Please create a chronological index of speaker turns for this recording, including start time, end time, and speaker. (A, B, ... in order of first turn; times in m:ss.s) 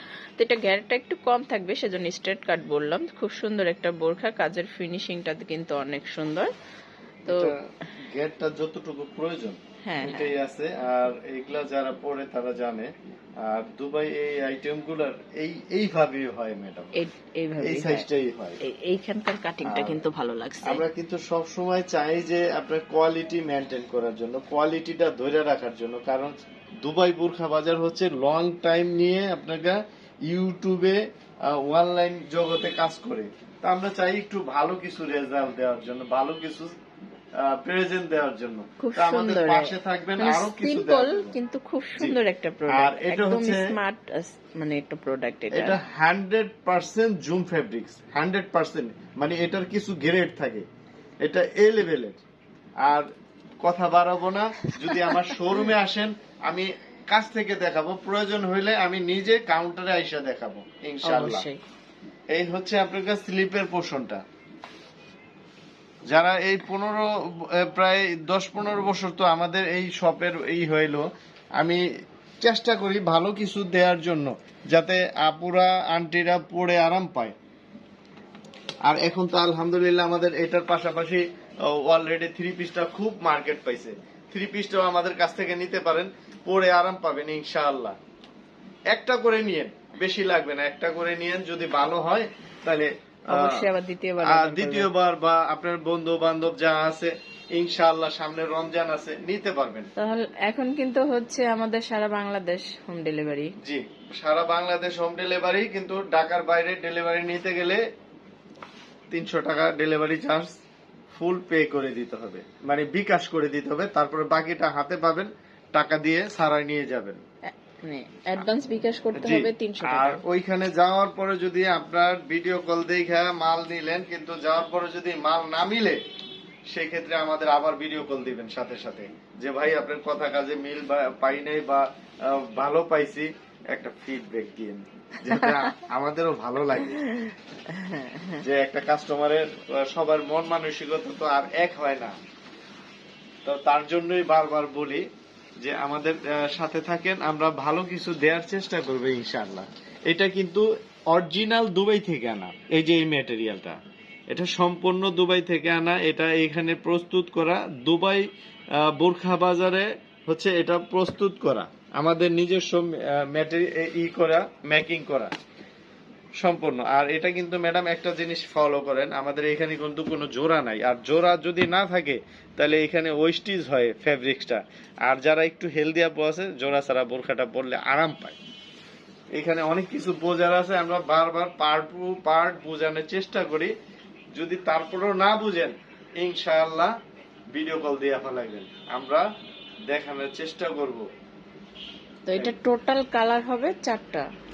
0:00.4-0:06.5 A
0:07.2-0:07.5 A
0:07.2-0:12.9 B
0:09.8-0:10.3 A
0:13.4-0:16.9 B
0:16.9-0:18.1 A
0:17.6-0:18.6 B
0:18.6-0:20.8 A
0:19.6-0:20.0 B
0:20.6-0:36.7 B
0:37.4-0:41.3 B
0:38.8-0:45.8 A
0:42.7-0:43.7 B
0:45.5-0:50.6 B
0:51.2-0:52.2 B
0:53.6-1:01.4 B
0:54.8-0:55.4 A
1:01.0-1:01.6 A
1:02.3-1:04.2 B
1:06.1-1:11.0 B
1:11.6-1:11.8 B
1:12.4-1:17.3 B
1:18.9-1:28.0 B
1:28.9-1:33.6 B
1:33.3-1:34.9 A
1:34.2-1:39.9 B
1:40.0-1:43.5 A
1:43.6-1:47.8 B
1:49.1-1:50.5 B
1:51.1-1:57.2 B
1:57.6-2:00.2 A
1:59.1-2:06.0 B
2:06.7-2:17.0 B
2:15.3-2:15.8 A
2:16.8-2:18.4 A
2:18.4-2:22.1 B
2:23.4-2:25.0 B
2:25.6-2:33.8 B
2:34.3-2:38.2 B
2:38.8-2:45.3 B
2:46.4-2:58.4 B
2:59.4-3:03.7 B
3:04.3-3:06.9 B
3:07.5-3:09.2 B
3:09.9-3:11.0 B
3:12.2-3:14.2 A